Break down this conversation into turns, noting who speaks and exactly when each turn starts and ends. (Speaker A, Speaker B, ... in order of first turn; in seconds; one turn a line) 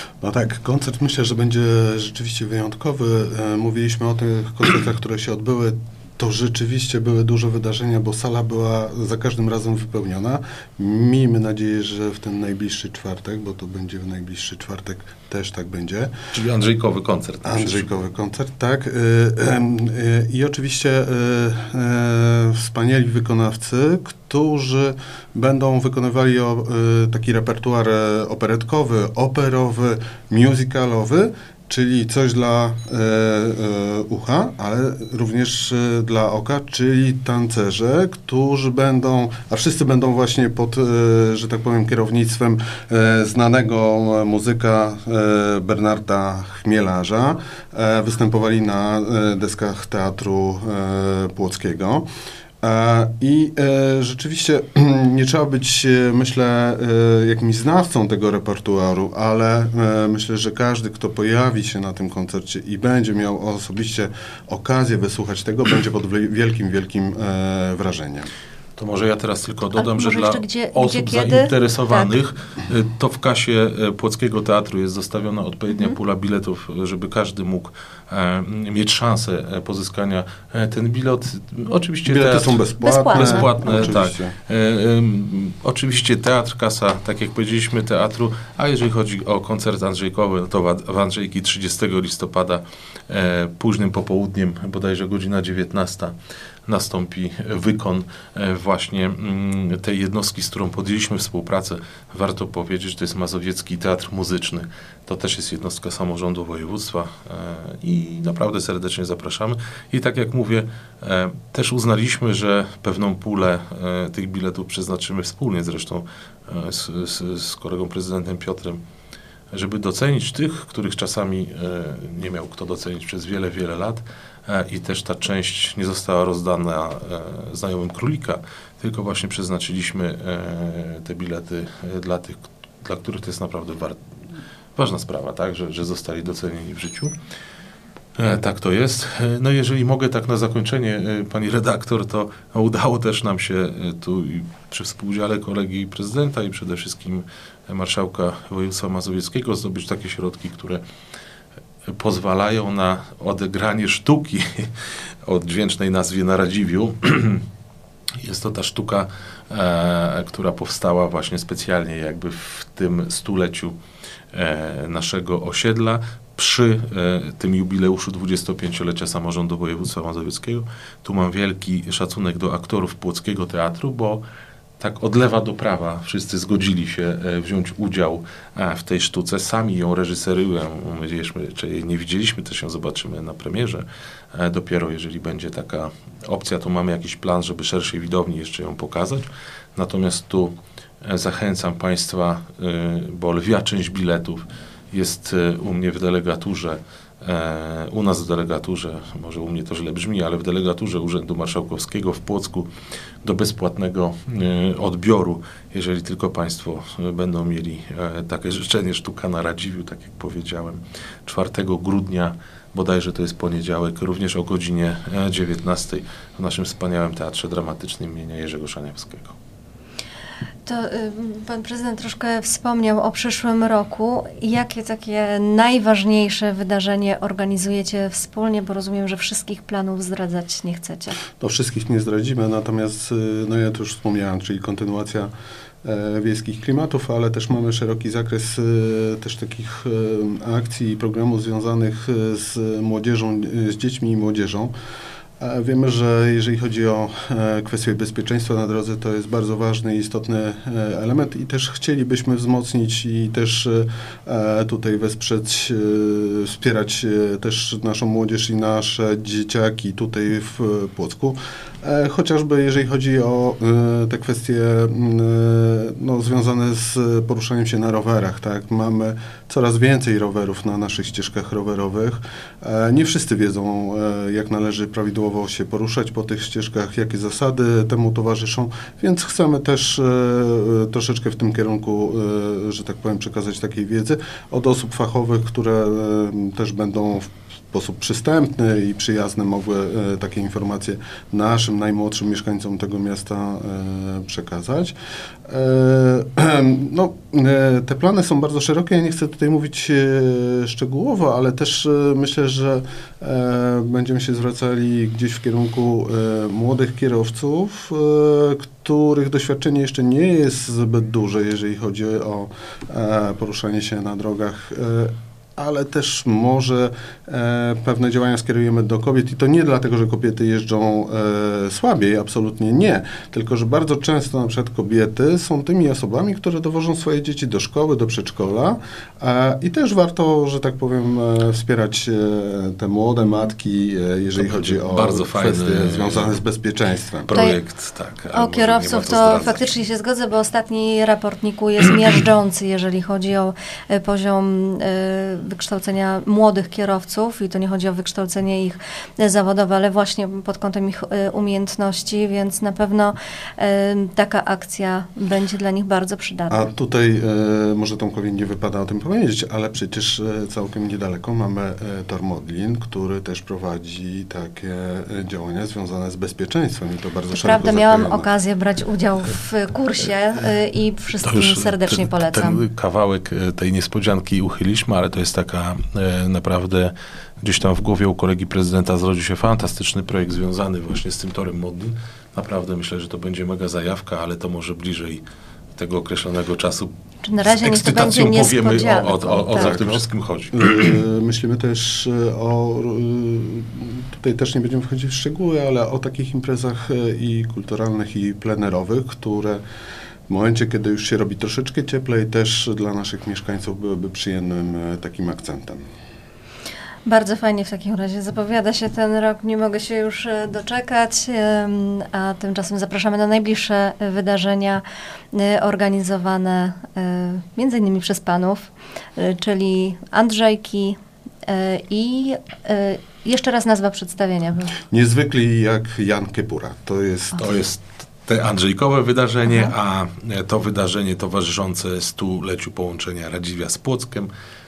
Speaker A: 0.2-16.1
Speaker B: 16.3-17.9
Speaker A: 17.4-52.1
Speaker A: 52.6-68.3
Speaker B: 68.8-96.2
Speaker C: 69.8-72.1
Speaker A: 82.1-84.3
Speaker C: 82.8-83.8
Speaker B: 96.7-118.8
Speaker B: 119.5-134.0
Speaker B: 134.8-137.1
Speaker B: 138.2-150.8
Speaker B: 151.9-154.7
Speaker B: 155.2-157.4
Speaker B: 158.2-163.8
Speaker B: 164.3-174.2
Speaker B: 174.8-202.7
Speaker B: 203.2-219.3
Speaker C: 220.7-231.2
Speaker A: 231.4-235.3
Speaker A: 235.8-244.7
Speaker A: 245.4-294.9
Speaker A: 295.5-337.3
Speaker B: 334.4-336.4
Speaker B: 337.2-339.6
Speaker C: 337.3-337.6
Speaker C: 338.3-356.7
Speaker A: 356.5-368.3
Speaker C: 367.3-372.6
Speaker B: 371.2-385.2
Speaker B: 385.8-386.9
Speaker C: 387.2-389.7
Speaker B: 387.4-391.0
Speaker A: 389.5-390.0
Speaker A: 390.5-399.6
Speaker A: 400.3-405.8
Speaker C: 407.1-424.8
Speaker A: 424.9-427.5
Speaker B: 427.4-434.3